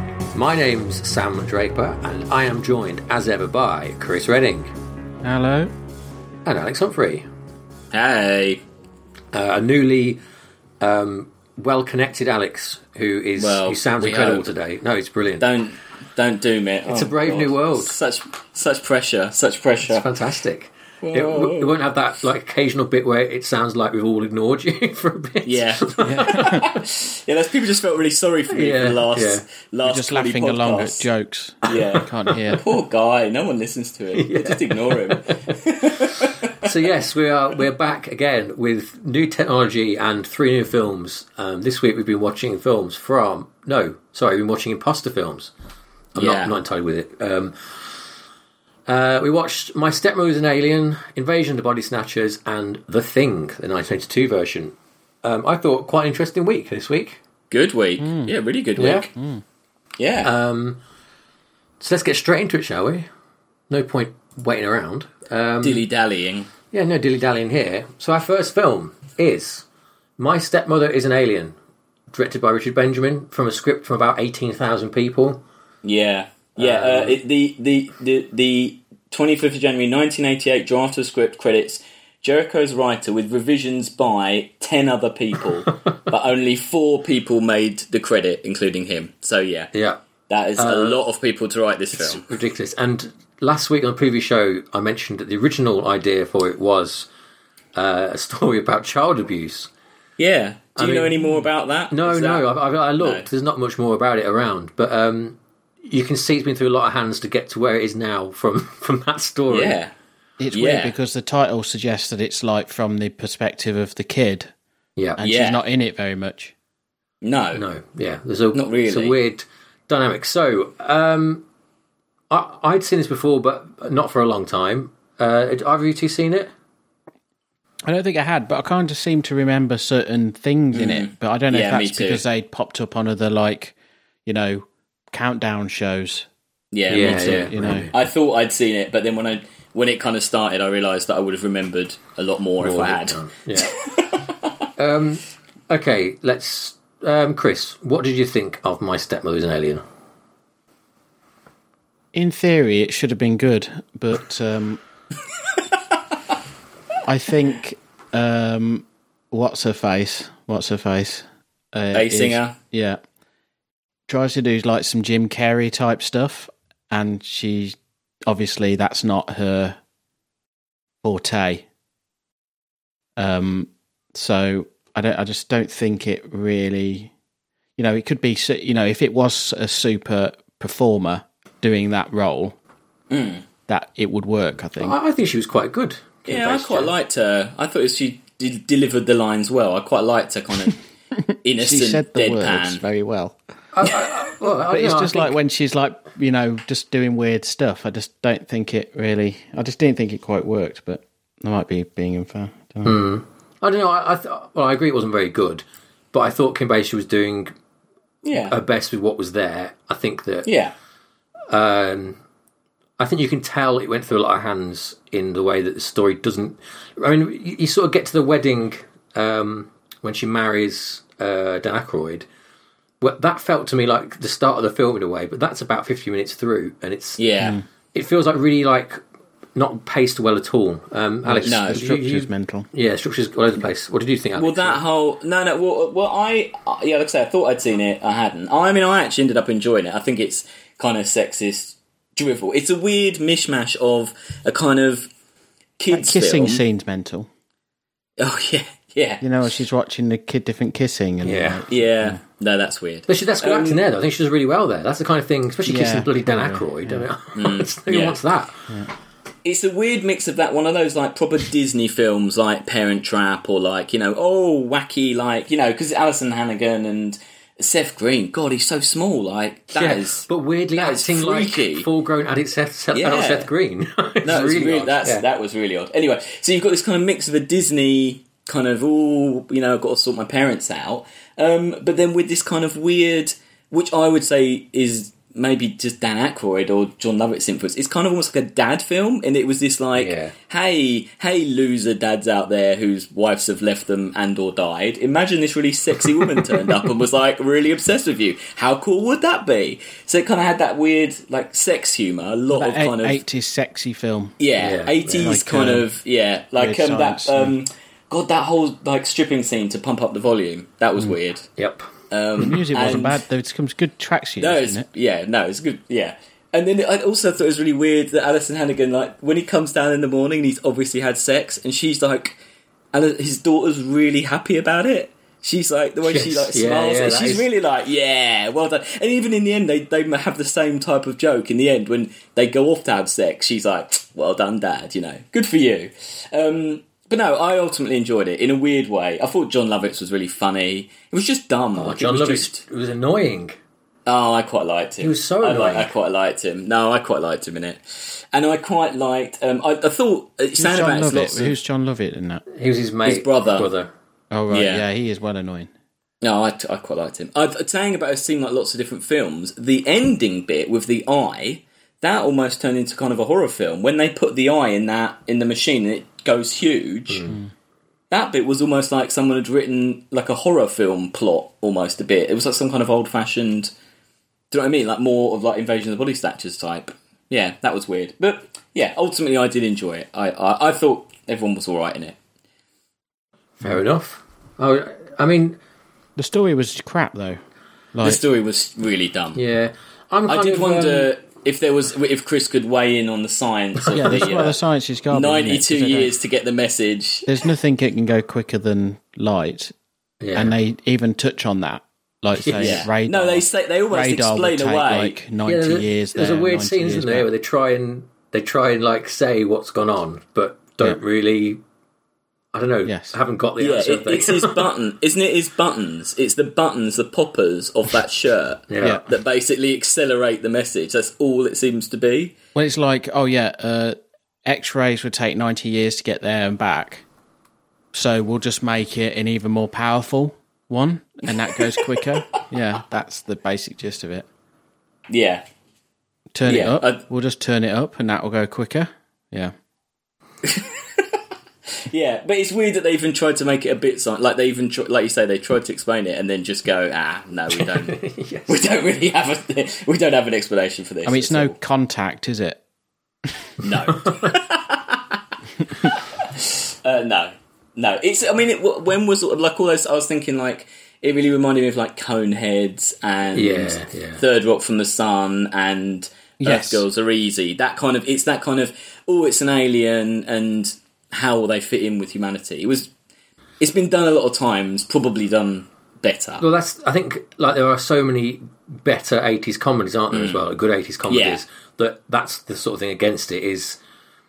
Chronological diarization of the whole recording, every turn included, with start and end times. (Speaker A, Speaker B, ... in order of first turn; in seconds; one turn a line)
Speaker A: 0.3-4.7
Speaker B: 5.2-5.7
Speaker A: 6.5-7.3
Speaker C: 7.9-8.6
Speaker A: 9.3-10.2
Speaker A: 10.8-15.5
Speaker C: 13.4-14.5
Speaker C: 15.4-20.1
Speaker A: 16.9-17.9
Speaker A: 19.8-26.7
Speaker C: 21.0-21.8
Speaker C: 25.4-31.1
Speaker B: 26.1-26.7
Speaker A: 28.5-29.4
Speaker B: 29.9-32.6
Speaker C: 31.6-36.7
Speaker A: 34.1-45.5
Speaker A: 46.1-47.6
Speaker C: 46.2-46.5
Speaker A: 48.9-57.2
Speaker C: 57.5-59.1
Speaker B: 58.0-58.3
Speaker A: 58.8-59.1
Speaker B: 59.2-59.4
Speaker C: 60.0-60.3
Speaker A: 60.2-60.8
Speaker A: 61.8-63.1
Speaker A: 63.7-65.9
Speaker C: 65.6-66.5
Speaker A: 66.7-69.7
Speaker A: 70.2-71.5
Speaker A: 72.1-75.4
Speaker C: 75.8-89.7
Speaker A: 76.6-77.2
Speaker A: 89.7-90.0
Speaker C: 90.3-92.3
Speaker A: 90.6-91.0
Speaker A: 91.9-97.1
Speaker A: 97.8-99.7
Speaker C: 100.2-102.5
Speaker A: 100.8-101.3
Speaker A: 101.9-109.8
Speaker C: 103.0-103.3
Speaker C: 109.5-109.9
Speaker B: 110.4-114.5
Speaker C: 110.5-110.9
Speaker B: 115.2-116.5
Speaker C: 115.2-115.6
Speaker C: 117.2-117.6
Speaker A: 117.5-121.5
Speaker C: 118.5-119.2
Speaker A: 122.3-126.5
Speaker B: 127.8-136.3
Speaker C: 130.7-132.2
Speaker C: 136.7-144.3
Speaker A: 136.9-138.0
Speaker B: 136.9-137.9
Speaker A: 142.6-143.8
Speaker A: 144.8-149.8
Speaker B: 152.1-154.8
Speaker B: 157.1-163.0
Speaker C: 161.9-162.6
Speaker B: 164.1-169.8
Speaker B: 171.0-171.7
Speaker B: 173.2-177.1
Speaker B: 177.8-182.6
Speaker C: 183.1-183.4
Speaker B: 183.7-185.0
Speaker A: 184.8-186.9
Speaker C: 186.3-190.8
Speaker B: 191.2-193.4
Speaker C: 191.4-192.8
Speaker A: 193.7-195.3
Speaker B: 194.7-203.0
Speaker A: 202.8-207.5
Speaker C: 208.2-208.6
Speaker A: 208.4-210.5
Speaker C: 210.5-210.7
Speaker A: 211.5-212.2
Speaker A: 213.0-222.3
Speaker A: 223.0-227.2
Speaker C: 227.2-227.6
Speaker A: 227.9-229.0
Speaker A: 229.6-234.8
Speaker B: 231.2-232.7
Speaker C: 231.5-231.8
Speaker C: 234.4-245.1
Speaker C: 245.8-246.6
Speaker B: 245.9-247.3
Speaker C: 248.2-249.2
Speaker B: 249.2-252.2
Speaker A: 251.2-251.7
Speaker C: 251.7-253.8
Speaker A: 253.1-258.6
Speaker B: 255.7-257.1
Speaker C: 257.4-258.2
Speaker C: 259.4-271.9
Speaker A: 269.8-275.2
Speaker C: 272.9-273.5
Speaker C: 274.2-303.2
Speaker A: 290.0-290.3
Speaker B: 302.5-304.4
Speaker C: 304.4-311.5
Speaker A: 304.6-305.2
Speaker B: 305.1-305.9
Speaker B: 306.6-307.6
Speaker A: 311.6-311.9
Speaker C: 312.1-313.2
Speaker B: 312.4-314.9
Speaker C: 314.4-322.4
Speaker C: 322.9-342.6
Speaker A: 326.0-327.5
Speaker A: 341.8-343.6
Speaker C: 344.1-351.6
Speaker A: 345.0-345.9
Speaker B: 350.6-352.4
Speaker A: 352.5-353.9
Speaker C: 353.1-353.7
Speaker B: 354.3-355.7
Speaker C: 354.5-354.8
Speaker C: 356.2-367.3
Speaker A: 367.1-367.4
Speaker C: 368.1-373.7
Speaker C: 374.5-382.2
Speaker A: 383.6-385.6
Speaker B: 386.2-387.4
Speaker B: 387.9-388.2
Speaker C: 388.0-389.4
Speaker A: 389.4-391.1
Speaker C: 390.3-394.6
Speaker B: 393.9-396.1
Speaker C: 395.1-397.3
Speaker B: 397.3-399.7
Speaker A: 400.2-400.6
Speaker B: 400.4-407.3
Speaker A: 402.4-402.9
Speaker C: 402.6-405.2
Speaker A: 405.4-411.6
Speaker A: 412.5-414.7
Speaker B: 412.9-413.1
Speaker C: 413.6-422.3
Speaker A: 418.7-419.1
Speaker B: 422.6-427.1
Speaker B: 427.9-434.3
Speaker C: 431.8-432.0
Speaker C: 435.1-435.4
Speaker B: 436.4-439.5
Speaker C: 436.4-437.0
Speaker C: 440.4-441.1
Speaker C: 441.9-451.5
Speaker A: 447.5-448.6
Speaker B: 451.1-452.6
Speaker C: 453.6-455.2
Speaker C: 455.8-472.9
Speaker A: 463.4-464.2
Speaker B: 466.4-466.8
Speaker C: 473.6-476.4
Speaker A: 476.4-483.8
Speaker C: 480.1-480.4
Speaker C: 481.1-481.4